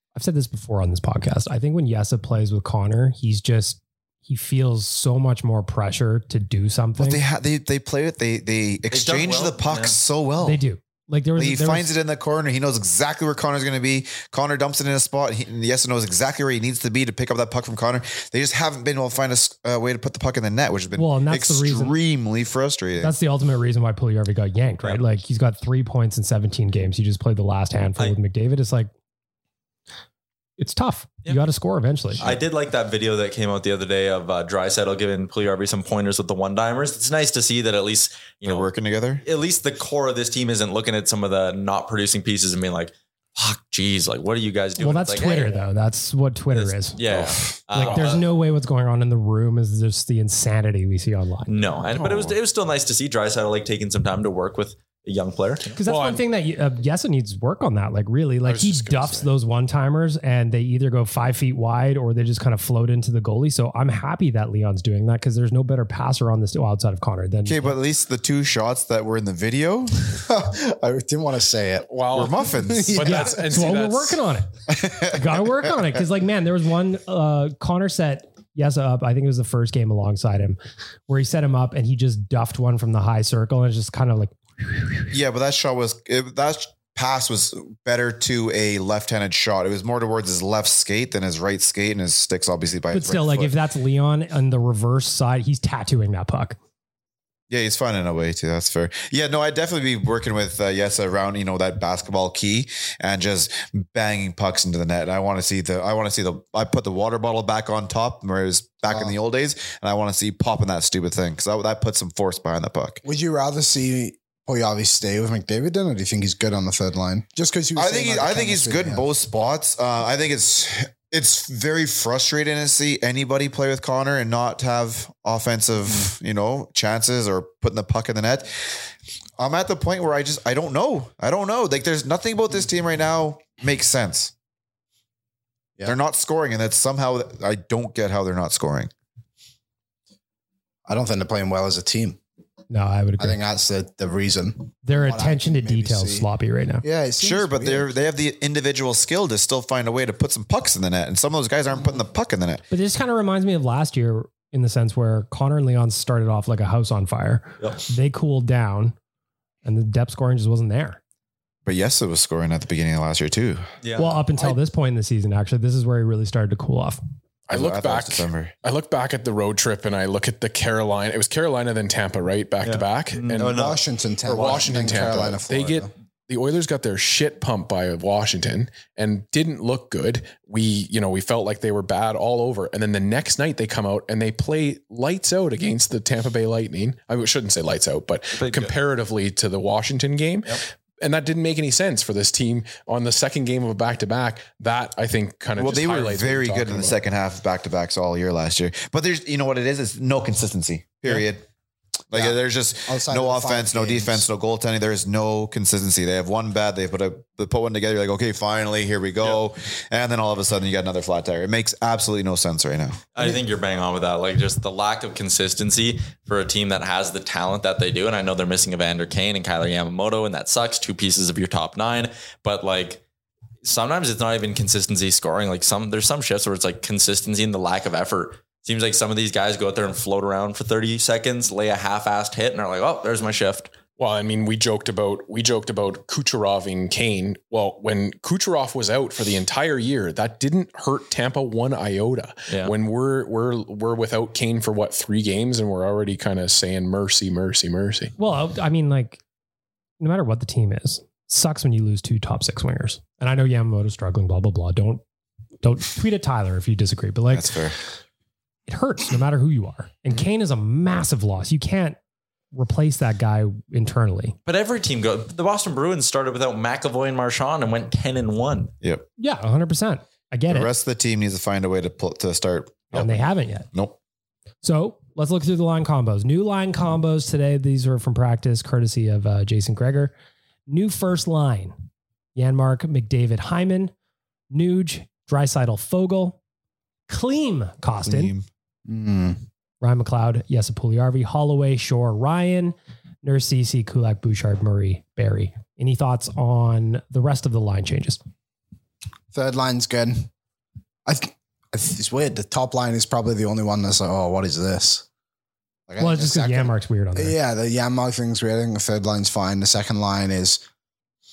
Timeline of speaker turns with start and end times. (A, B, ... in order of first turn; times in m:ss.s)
0:00.1-0:07.2 A
0:07.0-0:10.6 B
0:08.9-0:10.0 C
0:10.4-0:11.9 A
0:11.4-0:23.1 B
0:21.0-0:22.0 A
0:23.0-0:28.9 A
0:30.6-0:32.2 A
0:32.2-0:38.7 C
0:38.4-0:39.2 B
0:39.2-0:45.6 C
0:44.8-0:47.0 A
0:46.5-0:48.2 C
0:47.7-0:51.5 A
0:47.8-0:48.2 D
0:51.5-0:55.8 C
0:51.9-0:52.4 B
0:55.8-0:56.2 D
0:55.8-1:07.7 A
0:58.4-0:59.3 D
1:07.4-1:10.2 B
1:10.2-1:11.9 E
1:11.9-1:14.2 D
1:12.1-1:13.3 B
1:12.5-1:13.4 E
1:13.0-1:14.5 A
1:14.7-1:15.5 B
1:15.1-1:25.1 A
1:25.1-1:33.5 B
1:32.9-1:36.6 A
1:37.5-1:53.0 B
1:48.9-1:49.2 E
1:53.0-1:59.1 E
1:57.8-2:08.8 B
2:09.4-2:14.3 B
2:15.8-2:18.9 B
2:20.8-2:22.2 E
2:22.7-2:23.4 A
2:23.2-2:26.3 E
2:24.8-2:26.8 A
2:26.8-2:27.9 E
2:27.2-2:32.6 B
2:32.7-2:38.9 A
2:39.6-2:41.0 A
2:41.6-2:43.6 B
2:43.8-2:44.6 C
2:44.0-2:47.0 A
2:47.5-2:53.6 D
2:47.5-2:48.5 B
2:52.6-2:53.8 C
2:53.4-2:55.9 E
2:54.2-3:17.0 D
3:08.3-3:08.7 C
3:15.6-3:21.4 B
3:22.1-3:33.0 B
3:22.1-3:24.3 E
3:33.1-3:43.0 C
3:43.6-3:53.7 C
3:54.0-4:08.1 D
4:08.2-4:09.2 A
4:10.0-4:15.0 A
4:15.6-4:17.6 A
4:17.3-4:17.8 B
4:18.7-4:22.0 A
4:22.5-4:24.4 A
4:24.4-4:28.7 C
4:29.2-4:30.7 A
4:30.5-4:33.9 B
4:32.9-4:33.7 A
4:34.6-4:40.1 A
4:40.7-4:41.8 A
4:42.3-4:43.9 A
4:44.5-4:46.4 A
4:47.1-4:48.3 A
4:48.0-4:48.5 B
4:48.8-4:49.4 E
4:49.8-4:58.2 A
4:59.3-5:00.3 E
5:01.0-5:05.0 E
5:05.9-5:10.6 E
5:06.0-5:07.4 A